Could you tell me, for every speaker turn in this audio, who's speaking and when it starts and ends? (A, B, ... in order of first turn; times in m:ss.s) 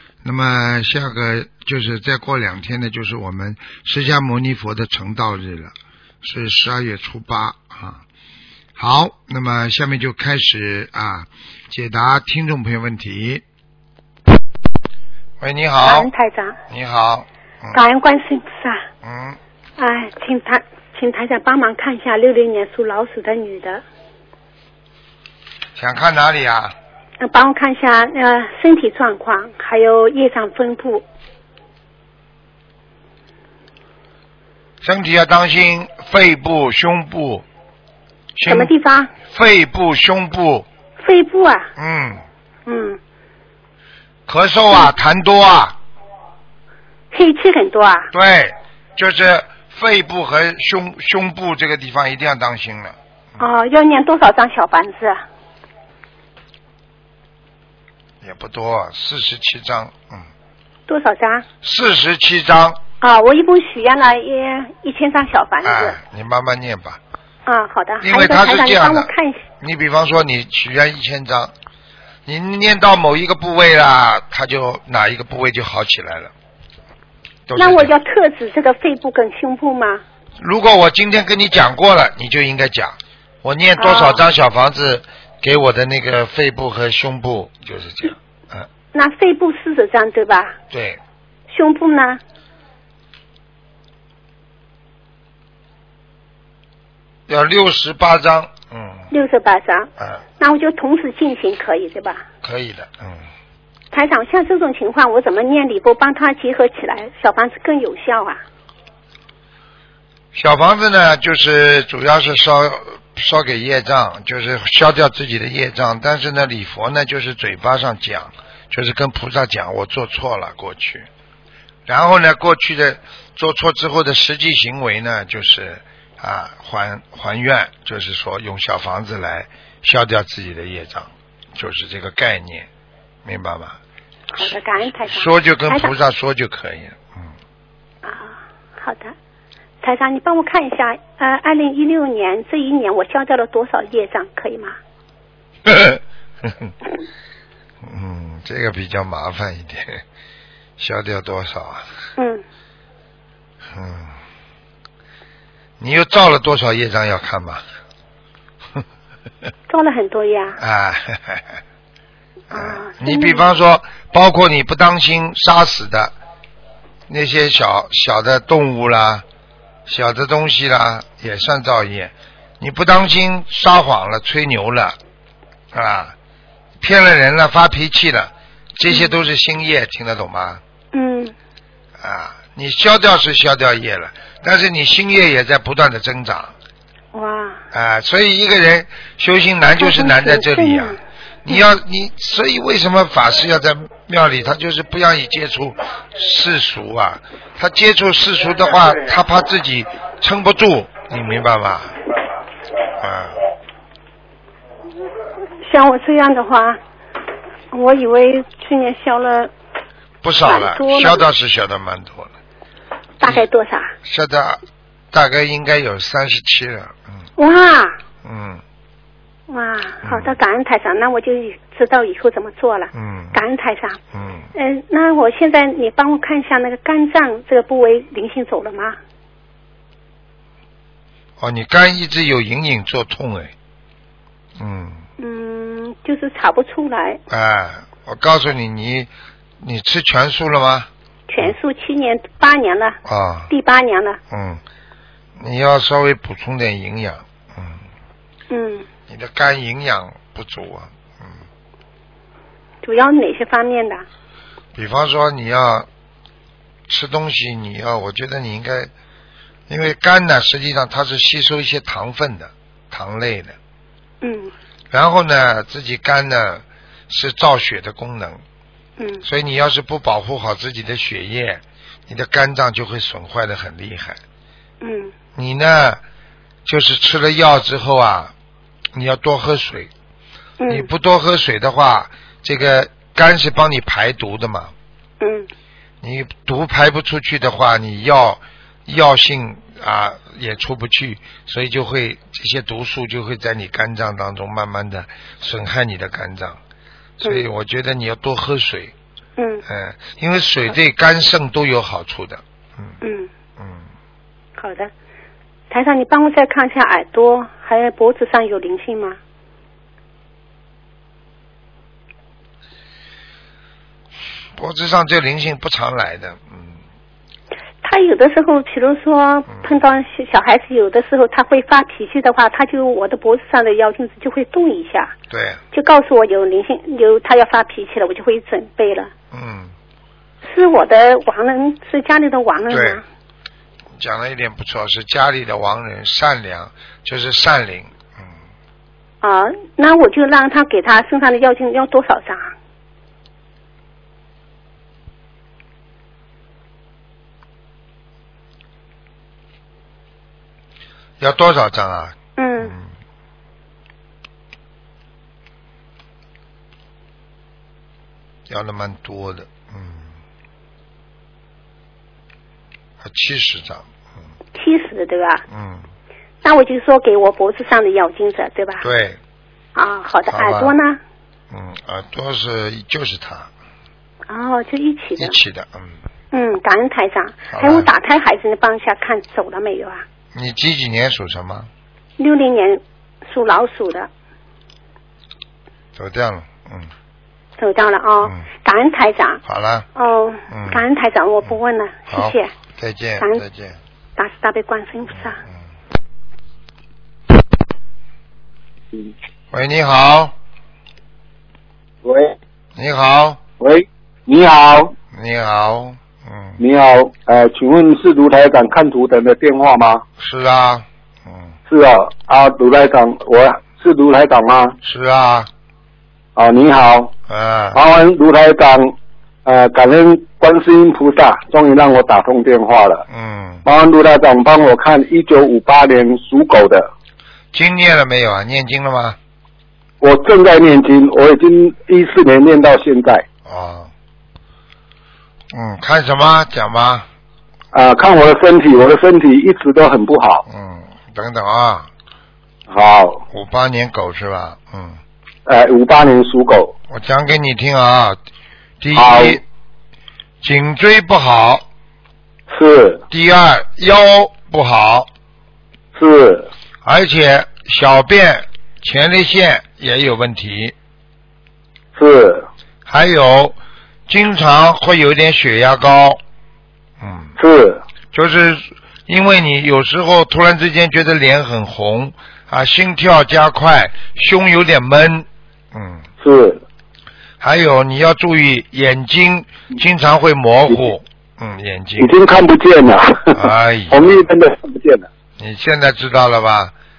0:00.2-0:08.0 A
0:08.8-0:13.4 A
0:15.4-0:16.1 A
0:15.8-0:16.6 B
0:16.7-0:17.8 A
0:17.7-0:18.8 B
0:19.0-0:19.4 A
0:19.8-0:23.8 B
0:25.8-0:26.7 A
0:27.2-0:31.0 B
0:34.8-0:37.4 A
0:38.4-0:38.7 A
0:38.4-0:39.1 B
0:39.3-0:40.7 A
0:41.0-0:41.7 B
0:41.8-0:42.2 A
0:42.6-0:43.0 B
0:44.3-0:45.8 A
0:47.1-0:48.1 B
0:48.1-0:52.9 A
0:53.4-0:55.2 B
0:58.2-1:00.2 A
1:00.9-1:01.4 B
1:01.6-1:02.8 A
1:03.0-1:06.0 B
1:05.6-1:07.0 A
1:07.4-1:09.5 B
1:08.0-1:11.5 A
1:12.2-1:16.3 A
1:17.5-1:17.9 A
1:17.6-1:20.0 B
1:20.4-1:28.7 A
1:23.8-1:24.2 B
1:28.9-1:30.6 B
1:30.7-1:31.0 A
1:31.5-1:32.2 B
1:37.3-1:39.1 A
1:39.1-1:42.2 B
1:42.4-1:43.2 A
1:43.9-1:48.4 B
1:50.3-2:01.1 A
2:01.9-2:12.7 A
2:13.2-2:13.8 A
2:14.3-2:15.9 B
2:15.0-2:17.3 A
2:18.0-2:19.1 B
2:19.8-2:24.7 B
2:25.6-2:26.7 A
2:27.8-2:30.0 A
2:30.8-2:31.8 A
2:32.2-2:32.4 B
2:33.7-2:34.1 A
2:35.8-2:37.6 A
2:39.7-2:40.6 B
2:40.6-2:41.6 A
2:42.5-2:43.5 B
2:42.5-2:46.1 A
2:47.1-2:49.2 A
2:49.8-2:55.0 A
2:55.7-2:56.1 A
2:56.8-3:00.6 A
2:58.9-2:59.2 B
3:00.9-3:01.3 B
3:02.0-3:06.5 A
3:07.1-3:07.6 B
3:07.7-3:22.0 A
3:09.7-3:11.6 B
3:23.0-3:23.4 A
3:25.6-3:26.8 B
3:27.7-3:29.5 B
3:30.2-3:32.3 A
3:30.4-3:31.2 B
3:33.2-3:33.9 B
3:34.0-3:34.6 A
3:35.1-3:37.2 A
3:37.4-3:38.0 B
3:38.2-3:38.6 A
3:39.5-3:44.0 B
3:40.0-3:40.3 A
3:42.9-3:43.4 A
3:44.1-3:44.5 A
3:44.5-3:49.0 B
3:51.4-3:53.5 A
3:54.6-3:55.0 A
3:55.2-3:57.2 B
3:57.3-4:00.9 A
4:01.3-4:03.0 B
4:03.0-4:03.5 A
4:03.5-4:04.2 B
4:04.3-4:04.6 A
4:05.4-4:07.8 A
4:08.5-4:08.8 B
4:09.1-4:11.3 A
4:12.8-4:14.0 B
4:14.7-4:15.9 A
4:16.9-4:18.9 A
4:19.7-4:23.5 A
4:24.2-4:24.5 B
4:24.9-4:28.4 A
4:29.0-4:29.2 B
4:29.2-4:34.2 A
4:34.8-4:35.1 B
4:35.3-4:36.0 A
4:36.6-4:38.3 A
4:38.9-4:39.9 A
4:40.6-4:40.9 B
4:40.7-4:44.7 A
4:45.2-4:45.5 B
4:46.0-4:56.6 A
4:57.2-4:58.9 A
4:59.4-4:59.6 B
4:59.7-5:02.9 A
5:03.0-5:03.3 B
5:03.6-5:03.8 A
5:04.6-5:04.9 B
5:05.7-5:09.2 B
5:14.6-5:16.8 A
5:17.8-5:25.1 B
5:19.5-5:19.8 A
5:25.3-5:25.6 A
5:25.7-5:29.1 B
5:29.3-5:29.7 A
5:30.4-5:33.0 B
5:32.7-5:33.0 A
5:34.0-5:38.3 A
5:39.2-5:42.5 B
5:51.2-5:52.8 A
5:52.4-5:52.8 B
5:58.5-6:00.0 A
6:03.0-6:03.8 A
6:04.5-6:05.4 B
6:05.5-6:05.8 A
6:06.4-6:08.9 B
6:08.8-6:09.2 A
6:09.7-6:11.0 B
6:10.3-6:10.7 A
6:11.5-6:13.5 A
6:14.3-6:15.4 B
6:15.2-6:15.9 A
6:16.3-6:20.0 B
6:17.5-6:17.9 A
6:20.3-6:21.7 A
6:22.2-6:24.1 B
6:26.0-6:26.9 A
6:27.6-6:29.4 B
6:29.4-6:29.9 A
6:29.9-6:32.5 B
6:30.5-6:30.8 A
6:32.1-6:33.8 A
6:34.2-6:35.4 B
6:39.5-6:40.3 A
6:42.0-6:42.3 C
6:42.8-6:43.4 A
6:43.6-6:44.9 C
6:45.1-6:46.6 A
6:46.6-6:50.0 C
6:50.2-6:51.5 A
6:51.7-6:54.8 C
6:54.8-6:55.5 A
6:56.4-6:57.1 C
6:57.3-6:57.8 A
6:57.7-7:03.0 C
7:03.1-7:03.6 A
7:03.6-7:06.9 C
7:07.5-7:09.2 A
7:10.0-7:13.2 C
7:13.4-7:13.9 A
7:15.5-7:17.0 A
7:17.7-7:20.4 C
7:20.5-7:21.9 A
7:22.7-7:23.2 C
7:23.3-7:25.0 A
7:25.4-7:26.7 C
7:26.9-7:28.2 A
7:28.8-7:29.4 A
7:28.9-7:29.4 C
7:30.4-7:31.6 A
7:32.5-7:33.0 C
7:33.1-7:35.1 A
7:35.9-7:36.5 C
7:36.8-7:40.7 A
7:42.0-7:42.5 C
7:42.9-7:43.6 A
7:44.1-7:46.2 A
7:47.0-7:47.3 A
7:47.4-7:47.8 C
7:48.1-7:56.0 A
7:56.2-7:56.6 C
7:57.4-8:02.1 A
8:02.0-8:05.1 C
8:03.3-8:04.2 A
8:05.4-8:06.7 A